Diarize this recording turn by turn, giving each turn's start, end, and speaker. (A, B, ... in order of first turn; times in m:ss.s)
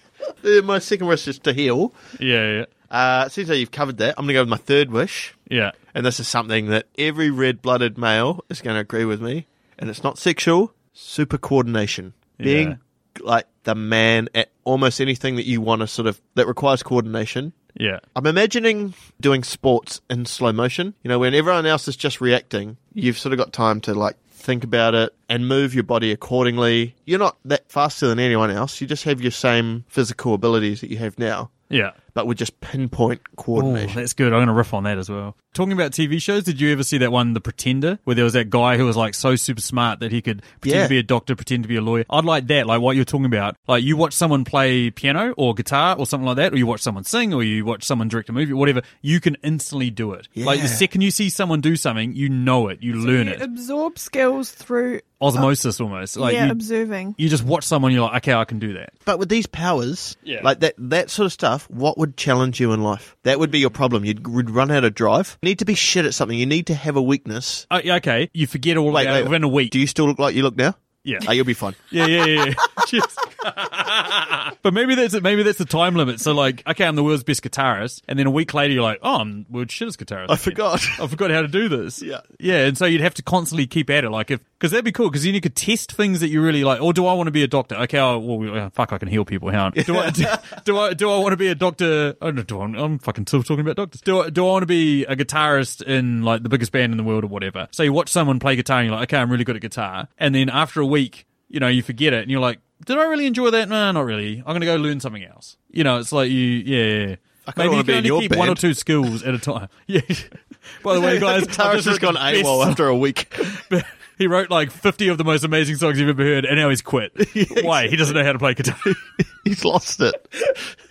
0:00.4-0:01.9 A
0:02.2-0:02.7 B
0:02.9-0:05.4 A
0:05.5-0:05.8 B
0:05.9-0:17.5 A
0:12.4-0:12.8 B
0:17.7-0:18.0 B
0:18.1-0:31.5 A
0:31.7-0:32.0 B
0:32.1-0:34.0 A
0:33.5-0:53.4 B
0:40.6-0:40.9 A
0:50.4-0:50.8 A
0:53.0-0:55.5 C
0:55.2-0:56.6 B
0:56.2-0:57.2 C
0:57.2-0:58.9 B
0:59.0-1:07.7 A
1:00.2-1:00.5 B
1:07.7-1:09.7 B
1:08.9-1:11.8 A
1:11.0-1:11.3 B
1:11.9-1:52.8 B
1:20.3-1:21.0 A
1:29.7-1:30.4 A
1:47.4-1:48.6 A
1:50.9-1:53.5 A
1:53.4-1:59.0 B
1:57.2-1:58.2 A
1:58.9-2:00.6 A